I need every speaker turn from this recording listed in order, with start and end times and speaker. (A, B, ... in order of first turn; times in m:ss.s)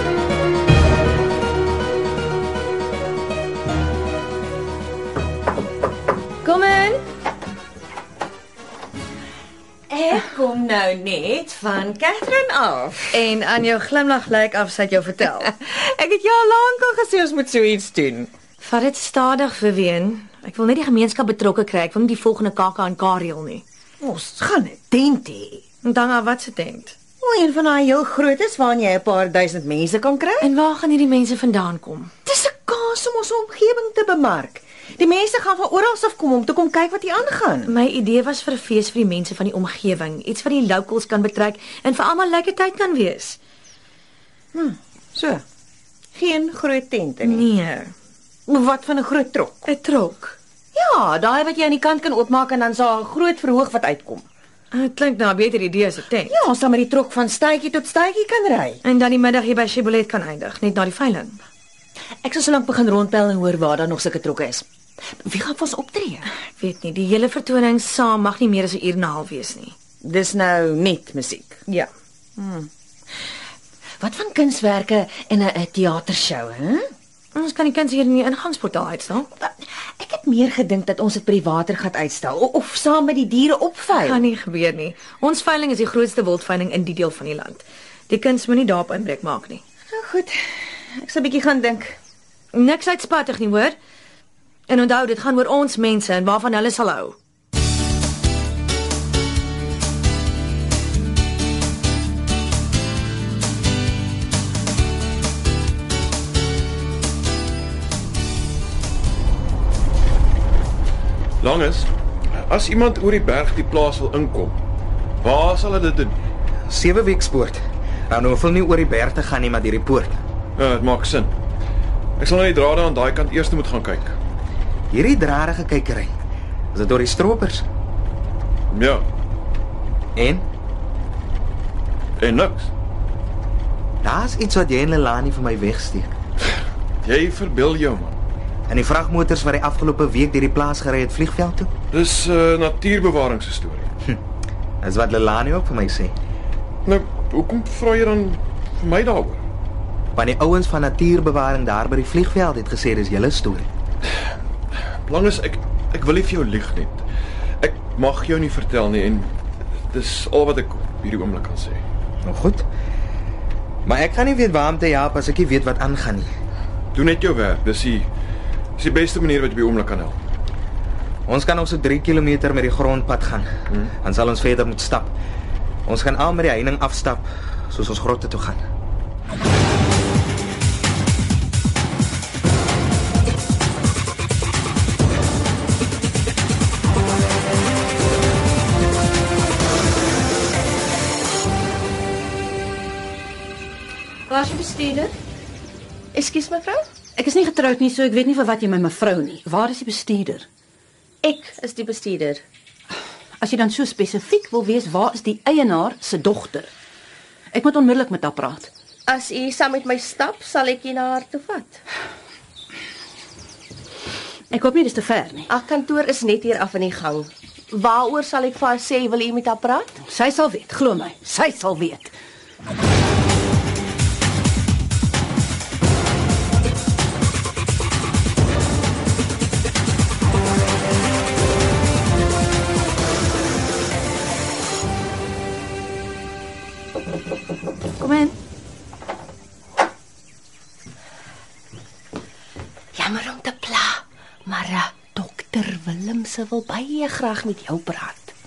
0:06.4-0:07.0 A
0:09.9-0:13.1 B
0:13.1-0:15.5 A
0:15.6-0:18.3 B
0:18.6-0:23.6 A
0:24.0-0:25.6 B
0:25.8-0:27.0 A
0:27.2-0:30.5 B
0:30.4-0:32.1 A
0:32.3-0:37.7 B
0:37.7-0:43.4 A
0:44.6-0:45.4 B
0:46.2-0:47.5 B
0:47.2-0:47.9 A
0:48.5-0:49.7 B
0:49.7-0:50.4 A
0:50.8-0:54.2 B
0:54.7-0:56.4 A
0:56.3-0:58.8 B
0:58.8-1:01.4 A
1:02.2-1:04.6 B
1:05.2-1:06.3 B
1:06.5-1:09.8 A
1:10.0-1:11.6 B
1:12.4-1:12.7 B
1:14.0-1:16.9 B
1:17.4-1:19.3 A
1:19.4-1:24.2 B
1:24.0-1:29.6 A
1:29.9-1:30.4 B
1:31.0-1:32.0 B
1:32.5-1:33.8 A
1:34.7-1:37.2 A
1:51.4-1:51.9 C
1:52.4-1:54.6 C
1:55.2-1:56.2 C
1:56.7-2:00.2 D
2:00.6-2:01.3 C
2:02.2-2:04.2 C
2:04.9-2:06.1 D
2:06.7-2:07.7 D
2:08.7-2:09.1 C
2:10.2-2:10.4 D
2:12.2-2:12.7 C
2:14.0-2:16.1 D
2:17.0-2:18.2 C
2:18.7-2:21.7 D
2:21.9-2:23.9 C
2:24.8-2:26.1 D
2:26.8-2:29.4 C
2:30.2-2:33.7 D
2:35.0-2:37.1 C
2:37.6-2:39.3 C
2:39.9-2:41.8 C
2:42.3-2:42.7 D
2:43.8-2:46.3 D
2:46.9-2:48.1 C
2:48.8-2:50.2 C
2:51.3-2:53.5 D
2:54.0-2:55.1 D
2:55.9-2:58.6 D
3:14.3-3:15.1 E
3:16.1-3:16.8 F
3:17.2-3:20.5 E
3:21.2-3:22.4 F
3:23.4-3:26.7 E
3:27.5-3:28.7 E
3:29.1-3:31.8 F
3:34.5-3:35.5 E
3:35.5-3:40.0 F
3:40.0-3:42.1 E
3:58.0-3:58.4 A
4:03.0-4:03.9 F
4:04.5-4:04.9 F
4:05.0-4:06.0 B
4:05.7-4:08.0 F
4:07.8-4:08.1 B